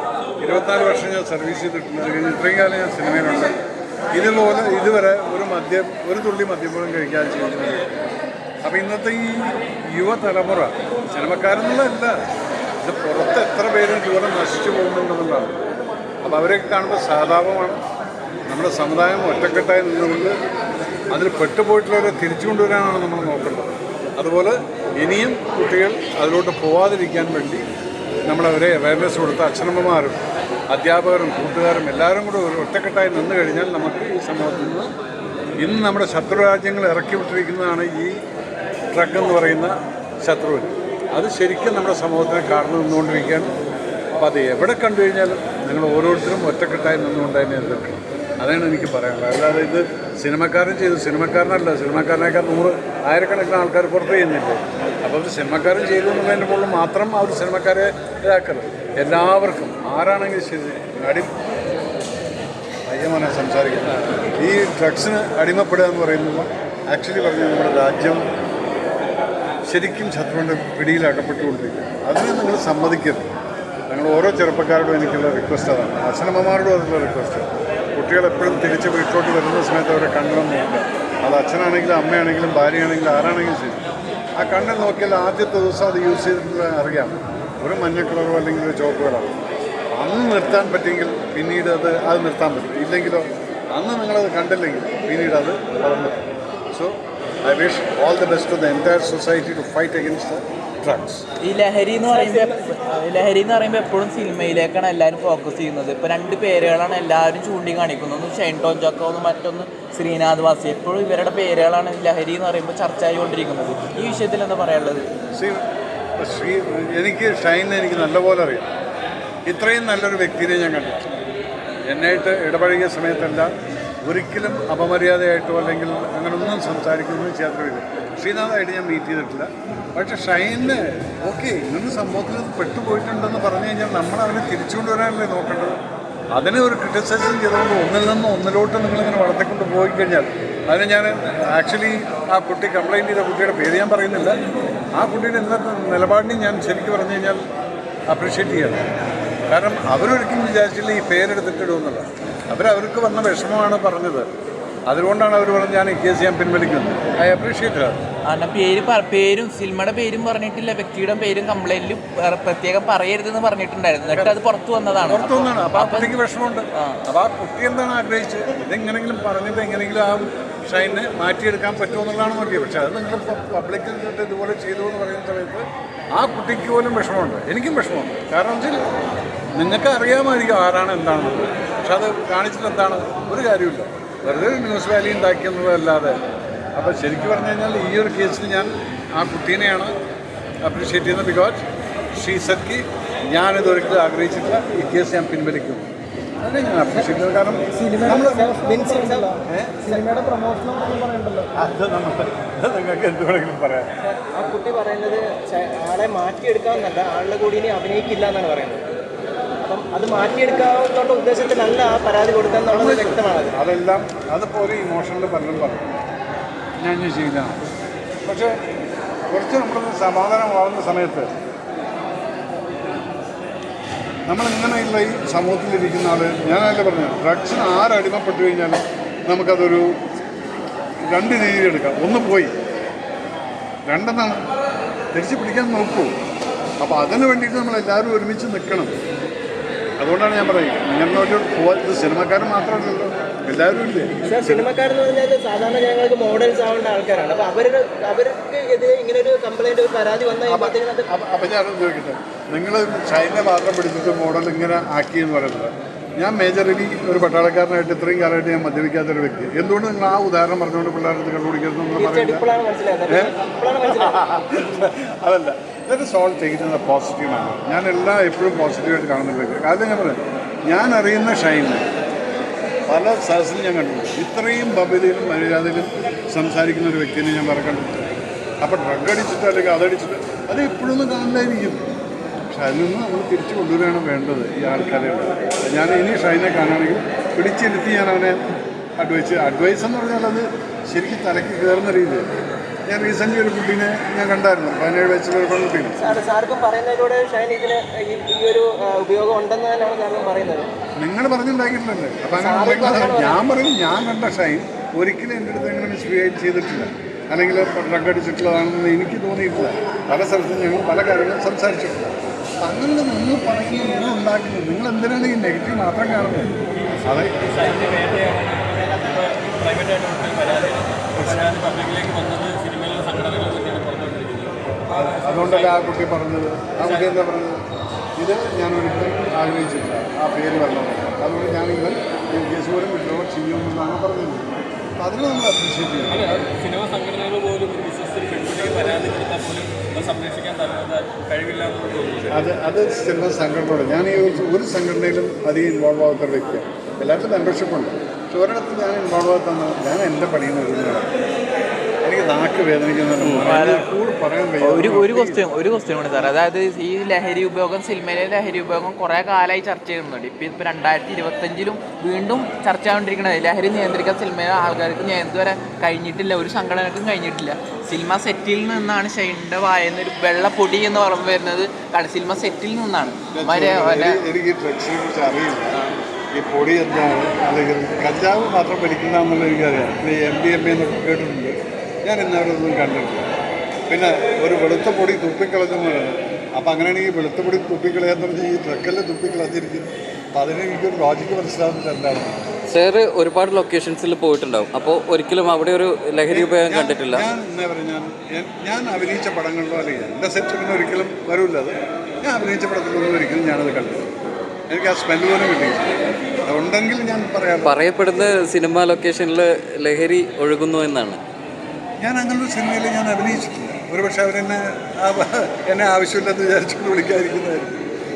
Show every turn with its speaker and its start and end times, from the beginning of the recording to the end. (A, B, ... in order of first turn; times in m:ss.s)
0:00.4-0:03.5 A
0:04.1-0:07.9 A
0:08.6-0:12.2 A
0:12.8-0:15.5 A
0:16.2-0:17.8 A
0:18.5-0:20.3 A
0:21.1-0:27.6 A
0:28.3-0:34.9 A
0:35.6-0:38.2 A
0:38.9-0:43.5 A
0:44.2-1:01.3 A
1:02.8-1:08.2 A
1:09.6-1:13.3 A
1:13.9-1:23.8 A
1:24.4-1:29.3 A
1:30.0-1:36.2 A
1:36.7-1:41.2 A
1:41.4-1:55.1 B
1:42.1-1:42.7 C
1:55.3-1:55.6 A
1:56.2-1:58.7 A
1:59.4-2:01.1 A
2:01.9-2:03.5 A
2:04.0-2:15.8 A
2:16.3-2:24.4 A
2:24.9-2:27.4 A
2:28.1-2:28.8 A
2:29.5-2:34.3 A
2:34.9-2:38.0 A
2:38.2-2:46.2 B
2:45.1-2:58.9 A
2:46.7-2:47.0 B
2:59.6-3:06.2 A
3:06.7-3:09.9 A
3:10.6-3:11.6 A
3:12.1-3:18.5 A
3:17.7-3:20.2 C
3:19.4-3:19.9 A
3:21.3-3:23.9 A
3:24.0-3:28.8 C
3:29.6-3:33.5 C
3:32.7-3:36.0 A
3:36.8-3:37.6 A
3:38.2-3:38.5 A
3:39.3-3:41.3 A
3:44.3-3:49.9 A
3:51.0-3:52.5 A
3:53.8-3:54.4 A
3:55.1-3:56.1 A
3:56.8-3:58.9 A
4:00.0-4:04.7 A
4:04.2-4:11.1 C
4:10.5-4:22.4 A
4:21.9-4:24.2 C
4:23.1-4:23.3 A
4:23.8-4:31.9 A
4:32.9-4:38.1 A
4:38.6-4:41.8 A
4:42.5-4:48.4 A
4:49.0-4:52.3 A
4:52.9-4:56.1 A
4:56.0-5:00.7 C
5:01.0-5:17.3 A
5:02.3-5:03.4 C
5:17.4-5:25.8 D
5:21.1-5:21.4 A
5:24.9-5:27.6 A
5:26.8-5:27.2 D
5:28.2-5:36.3 A
5:36.1-5:42.4 D
5:42.3-5:51.1 A
5:52.0-5:55.4 A
5:53.2-5:53.4 E
5:53.4-5:53.9 B
5:54.6-6:14.2 B
6:13.3-6:15.8 A
6:16.3-6:23.3 A
6:23.9-6:32.4 A
6:32.7-6:37.3 E
6:36.3-6:44.1 A
6:44.7-6:47.8 A
6:47.6-6:51.2 E
6:52.0-6:57.8 A